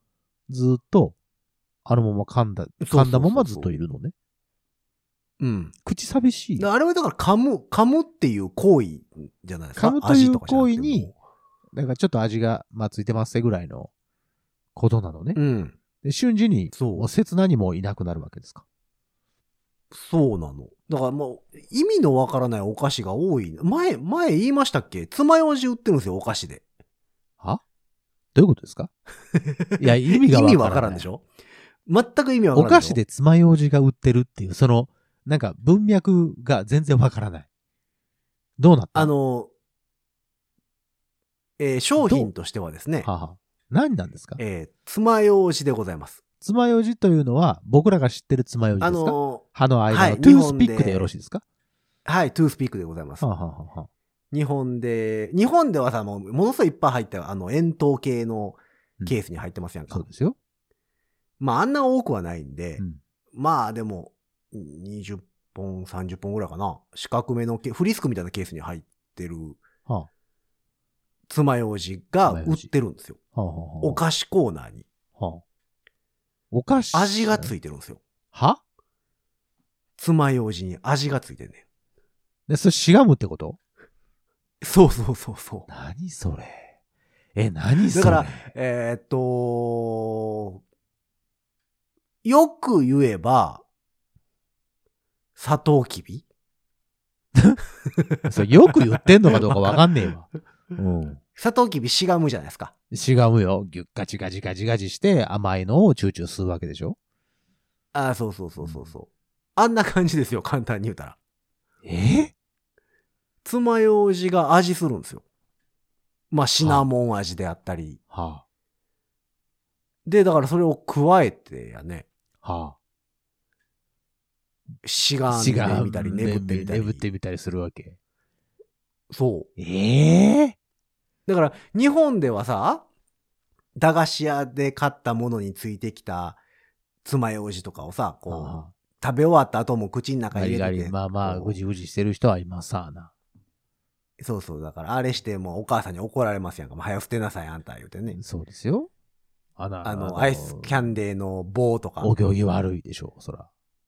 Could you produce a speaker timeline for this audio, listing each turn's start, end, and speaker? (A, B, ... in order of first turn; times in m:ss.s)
0:00.5-0:01.1 A
0:01.8-0:04.1 A
0:02.8-0:03.7 B
0:05.4-0:05.7 B
0:05.8-0:06.7 A
0:06.6-0:11.1 B
0:09.8-0:11.1 A
0:11.7-0:13.9 A
0:14.8-0:15.4 A
0:15.4-0:15.8 B
0:16.0-0:18.6 A
0:16.7-0:17.1 B
0:19.9-0:26.6 B
0:28.3-0:28.9 A
0:29.4-0:31.2 B
0:29.8-0:31.0 A
0:31.9-0:33.0 B
0:32.5-0:37.5 A
0:38.6-0:39.1 A
0:38.9-0:39.5 B
0:41.6-0:43.1 B
0:42.0-0:42.3 A
0:43.0-0:44.4 A
0:44.4-0:46.2 B
0:46.4-0:51.4 A
0:48.8-0:51.1 B
0:52.0-0:53.2 B
0:53.2-0:53.9 A
0:54.3-1:00.1 B
0:59.9-1:00.4 A
1:01.4-1:02.8 B
1:03.3-1:09.6 B
1:11.3-1:13.2 B
1:12.2-1:12.7 A
1:13.3-1:14.0 A
1:13.8-1:14.8 B
1:15.2-1:15.4 A
1:16.5-1:17.5 A
1:16.9-1:18.0 B
1:18.3-1:18.6 A
1:20.0-1:21.6 B
1:22.5-1:23.6 A
1:24.6-1:25.7 B
1:25.7-1:26.7 A
1:27.3-1:28.5 A
1:27.9-1:30.6 B
1:32.2-1:33.6 B
1:35.4-1:36.2 B
1:38.3-1:41.2 A
1:38.4-1:39.8 B
1:41.3-1:42.7 B
1:42.9-1:47.0 A
1:47.9-1:51.2 B
1:48.6-1:48.9 A
1:51.8-1:52.3 A
1:53.4-1:55.2 B
1:56.3-1:58.0 B
1:56.6-1:56.8 A
1:58.1-1:58.4 A
2:00.0-2:02.1 B
2:02.4-2:02.8 A
2:04.8-2:07.0 B
2:05.3-2:08.0 A
2:09.1-2:09.5 B
2:09.6-2:10.6 A
2:11.3-2:12.8 B
2:13.8-2:16.4 B
2:17.0-2:21.6 B
2:18.3-2:18.7 A
2:20.3-2:23.1 A
2:24.2-2:28.2 B
2:28.1-2:28.9 A
2:29.6-2:31.0 A
2:29.8-2:32.1 B
2:32.0-2:33.5 A